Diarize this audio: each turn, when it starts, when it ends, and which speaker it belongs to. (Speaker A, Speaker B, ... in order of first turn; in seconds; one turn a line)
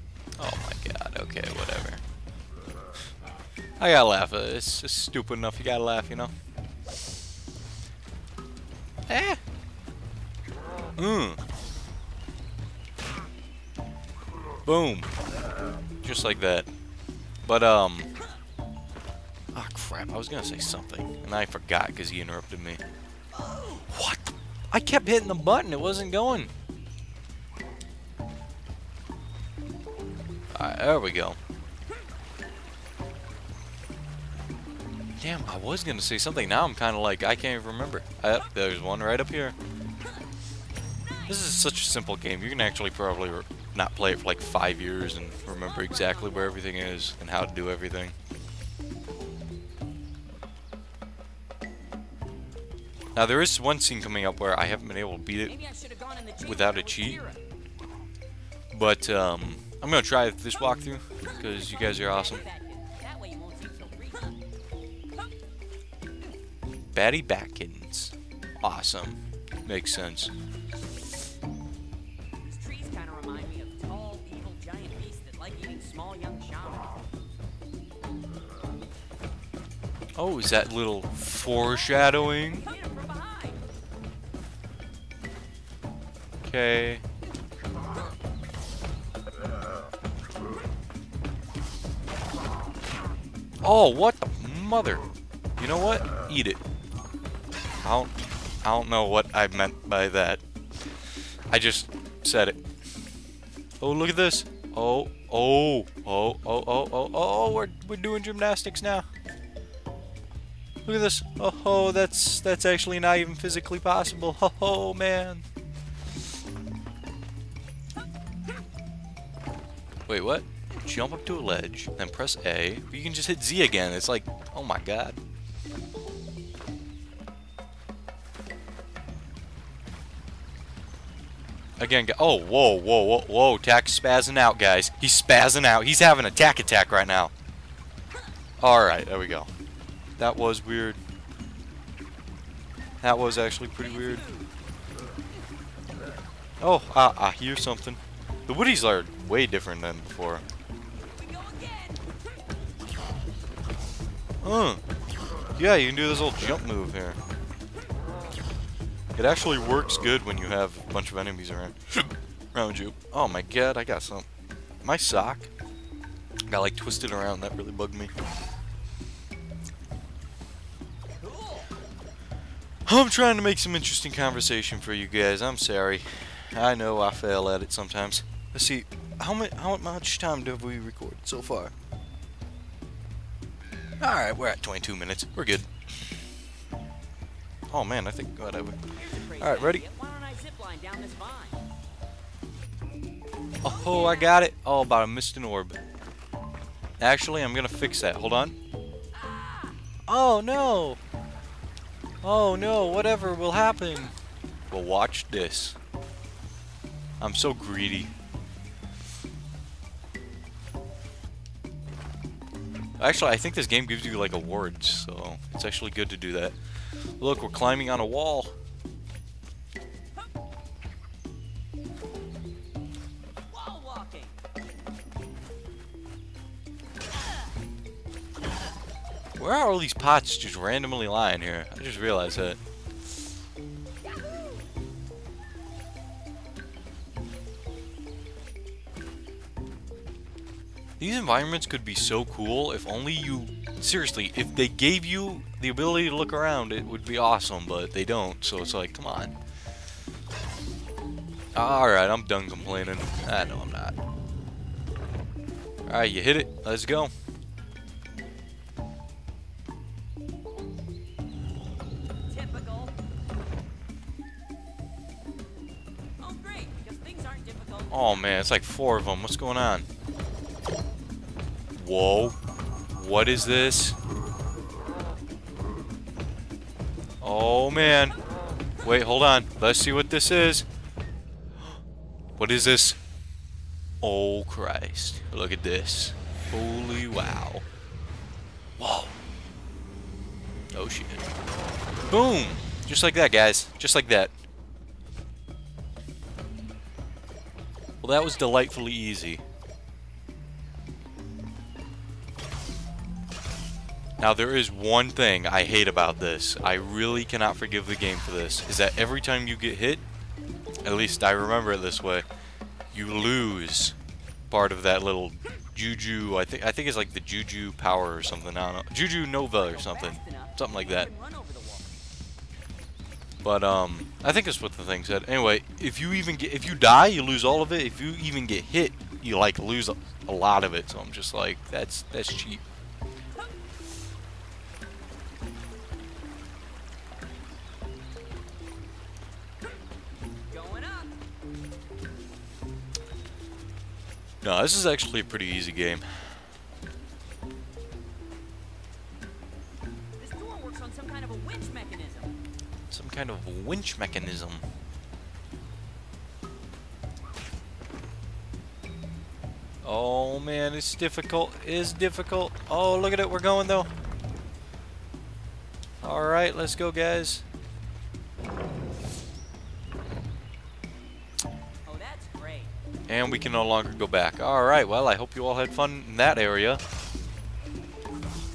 Speaker A: 0.4-2.0
Speaker A: 3.8-6.3
Speaker A: 9.1-9.4
Speaker A: 11.0-11.4
Speaker A: 14.6-15.1
Speaker A: 16.0-16.7
Speaker A: 17.4-18.1
Speaker A: 19.5-22.8
Speaker B: 23.4-23.8
Speaker A: 23.8-26.5
Speaker A: 30.5-31.4
Speaker A: 35.2-39.5
Speaker A: 41.3-48.1
Speaker B: 45.4-47.1
Speaker A: 53.1-55.5
Speaker B: 55.4-57.4
Speaker A: 56.4-57.2
Speaker A: 58.7-62.4
Speaker B: 61.3-64.4
Speaker A: 66.9-70.3
Speaker B: 72.4-77.0
Speaker A: 80.2-82.7
Speaker B: 81.9-83.6
Speaker A: 86.4-87.0
Speaker A: 93.6-95.0
Speaker A: 95.6-96.6
Speaker A: 97.8-98.1
Speaker A: 98.6-100.4
Speaker A: 101.5-102.6
Speaker A: 103.8-109.1
Speaker A: 110.8-115.4
Speaker A: 120.1-125.2
Speaker A: 131.8-137.3
Speaker A: 138.6-139.5
Speaker A: 140.2-141.0
Speaker A: 143.0-144.2
Speaker B: 143.8-144.5
Speaker A: 146.6-150.4
Speaker B: 151.0-152.1
Speaker A: 154.4-154.8
Speaker A: 155.6-157.2
Speaker A: 159.2-164.2
Speaker A: 164.8-165.5
Speaker A: 166.5-168.1
Speaker B: 171.2-171.7
Speaker A: 172.9-181.7
Speaker A: 184.0-185.9
Speaker A: 187.7-188.8
Speaker B: 188.9-191.6
Speaker A: 189.4-189.8
Speaker A: 193.6-195.8
Speaker B: 193.7-194.3
Speaker A: 197.0-198.6
Speaker B: 199.1-199.8
Speaker A: 200.1-201.0
Speaker A: 202.2-204.1
Speaker A: 204.7-205.8
Speaker A: 207.2-208.1
Speaker A: 213.0-216.6
Speaker A: 217.2-218.5
Speaker B: 223.5-224.4
Speaker A: 229.4-232.6
Speaker A: 241.0-249.3
Speaker A: 251.5-254.0
Speaker A: 255.9-257.1
Speaker B: 262.3-262.9
Speaker B: 266.2-268.3
Speaker A: 267.9-269.8
Speaker A: 271.7-272.4
Speaker A: 272.9-273.9
Speaker A: 277.2-278.1
Speaker A: 278.8-280.6
Speaker A: 282.4-283.0
Speaker A: 284.0-287.6
Speaker A: 288.8-289.1
Speaker A: 290.7-291.3
Speaker A: 292.1-294.3
Speaker A: 298.0-299.4
Speaker A: 304.2-310.0
Speaker A: 310.8-312.2
Speaker A: 312.9-313.9
Speaker A: 314.5-321.1
Speaker B: 319.5-322.0
Speaker A: 323.4-332.6
Speaker B: 340.5-341.1
Speaker A: 344.4-346.0
Speaker B: 350.2-352.4
Speaker A: 352.9-354.6
Speaker A: 359.8-363.9
Speaker A: 366.0-367.4
Speaker B: 371.9-372.7
Speaker A: 373.1-376.8